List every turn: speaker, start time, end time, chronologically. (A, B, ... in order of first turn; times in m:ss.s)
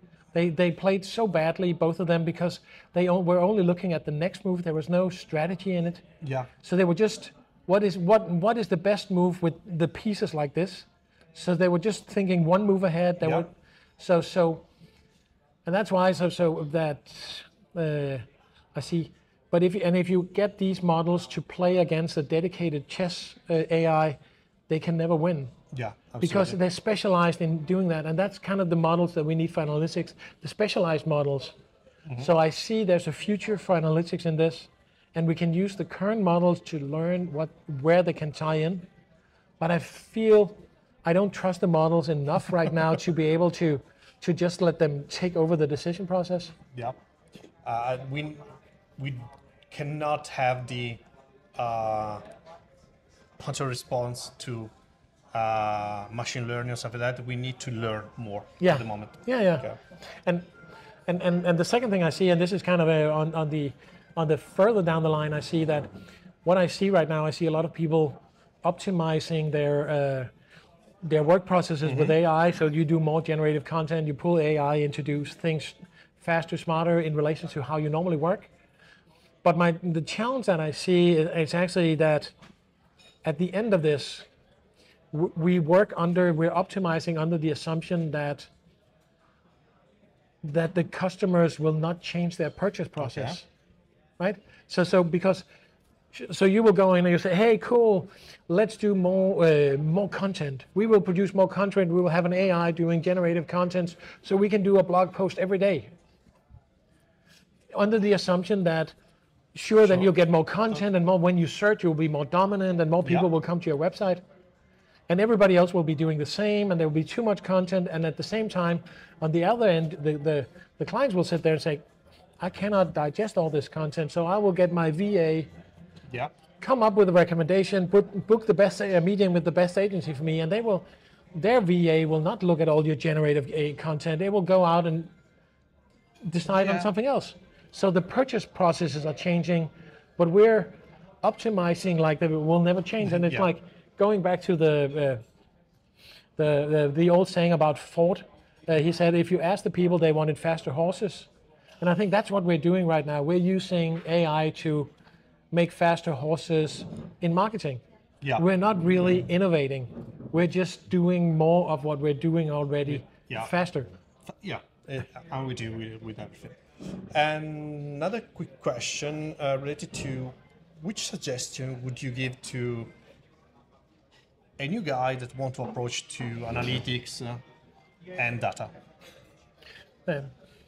0:00.3-0:06.0 A
0:06.2-0:06.5 B
0:06.6-0:14.6 A
0:15.6-0:18.2 A
0:18.7-0:24.2 A
0:24.7-0:25.5 A
0:25.7-0:26.6 B
0:26.2-0:31.5 A
0:32.2-0:38.8 A
0:39.6-0:46.5 A
0:47.6-0:48.4 B
0:49.0-0:51.0 B
0:51.6-0:52.2 B
0:53.4-0:54.7 B
0:55.3-0:59.8 B
0:58.6-1:00.5 A
1:01.1-1:05.9 A
1:06.4-1:10.3 A
1:11.0-1:18.5 A
1:11.8-1:12.2 B
1:19.4-1:22.3 A
1:23.2-1:24.3 A
1:25.1-1:28.5 A
1:30.4-1:33.4 A
1:33.0-1:33.4 B
1:34.2-1:35.5 A
1:36.1-1:45.9 A
1:47.7-1:48.9 A
1:49.5-1:54.2 A
1:55.1-2:01.8 A
2:02.4-2:05.5 A
2:06.6-2:15.1 A
2:16.2-2:25.2 A
2:16.5-2:16.9 B
2:23.0-2:23.5 B
2:26.4-2:31.3 A
2:31.8-2:34.9 A
2:35.5-2:37.8 A
2:38.4-2:43.9 A
2:42.9-2:43.5 B
2:44.3-2:52.9 B
2:54.6-2:57.4 B
2:58.1-2:58.7 B
3:00.0-3:00.3 A